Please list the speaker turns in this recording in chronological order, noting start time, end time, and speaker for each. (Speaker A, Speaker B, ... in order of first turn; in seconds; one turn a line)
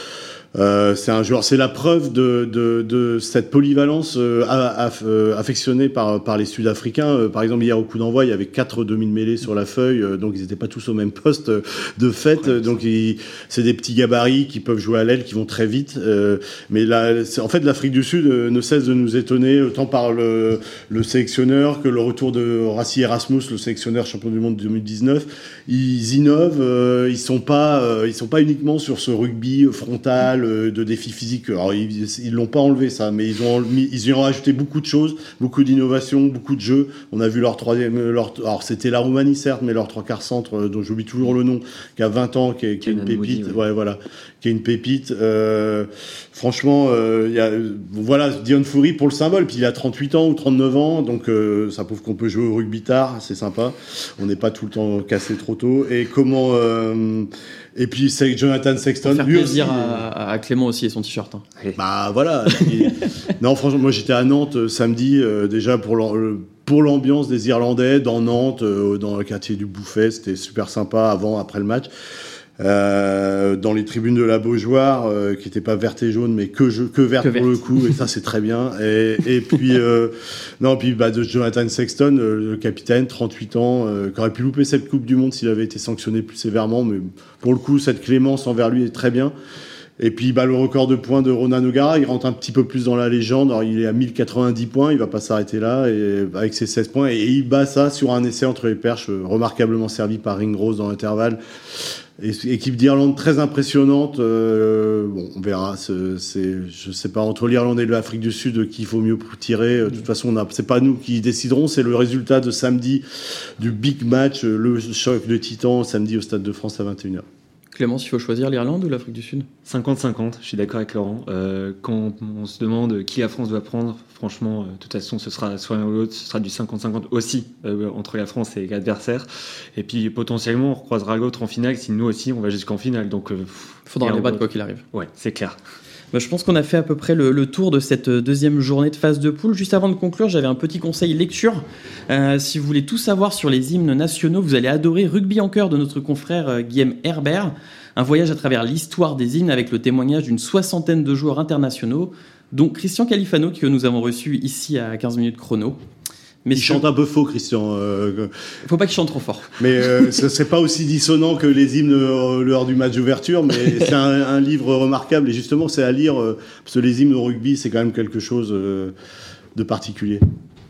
Speaker A: 0.6-60.1
Speaker B: 12.4-12.7
Speaker B: 42.8-43.6
Speaker C: 59.0-61.4
Speaker A: 61.8-71.9
Speaker A: 72.6-89.3
Speaker C: 77.2-78.0
Speaker A: 90.0-101.4
Speaker A: 102.2-113.0
Speaker A: 113.6-117.2
Speaker C: 117.7-119.5
Speaker B: 119.7-135.6
Speaker C: 133.9-134.8
Speaker C: 136.1-155.8
Speaker C: 156.4-156.8
Speaker A: 156.5-158.3
Speaker C: 158.7-159.5
Speaker A: 159.6-168.9
Speaker A: 169.6-170.2